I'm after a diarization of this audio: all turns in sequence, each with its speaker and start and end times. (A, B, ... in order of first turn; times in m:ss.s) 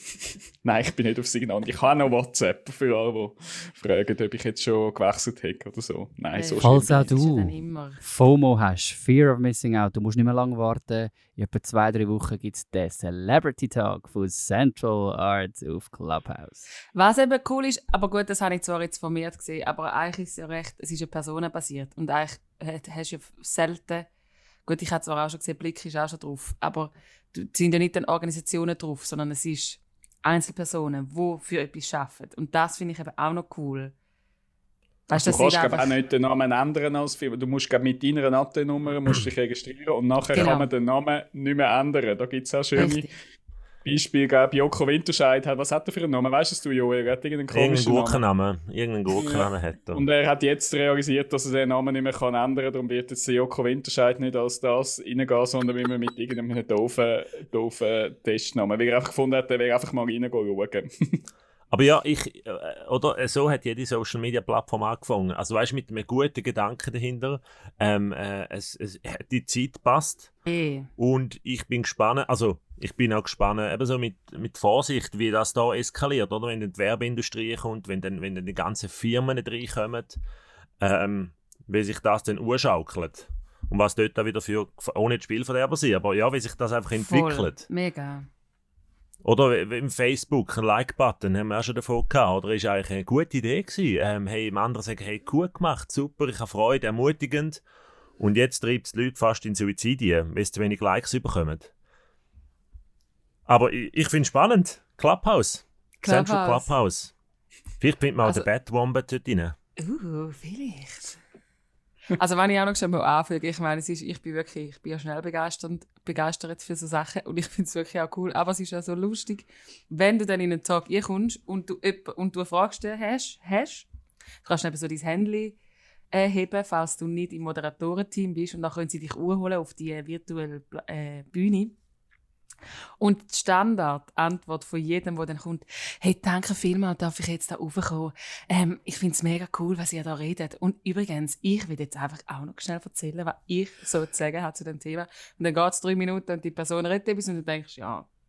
0:00.6-0:07.1 A
0:06.3-0:08.0 B
0:06.6-0:16.7 C
0:16.9-0:24.1 B
0:24.6-0:33.9 B
0:35.1-0:35.9 B
0:35.1-0:43.1 A
0:40.3-0:40.7 B
0:42.8-0:43.1 B
0:43.8-0:48.2 A
0:47.5-0:50.0 D
0:49.1-1:01.2 A
1:01.7-1:10.3 D
1:10.4-1:10.9 B
1:11.0-1:20.2 D
1:20.8-1:27.7 D
1:27.0-1:28.3 B
1:29.2-1:37.6 D
1:38.2-1:41.7 D
1:43.5-1:47.1 D
1:46.0-1:46.7 B
1:47.8-1:49.5 D
1:49.8-1:51.2 B
1:52.1-2:03.9 B
2:04.4-2:05.6 B
2:06.1-2:11.7 B
2:13.0-2:28.1 B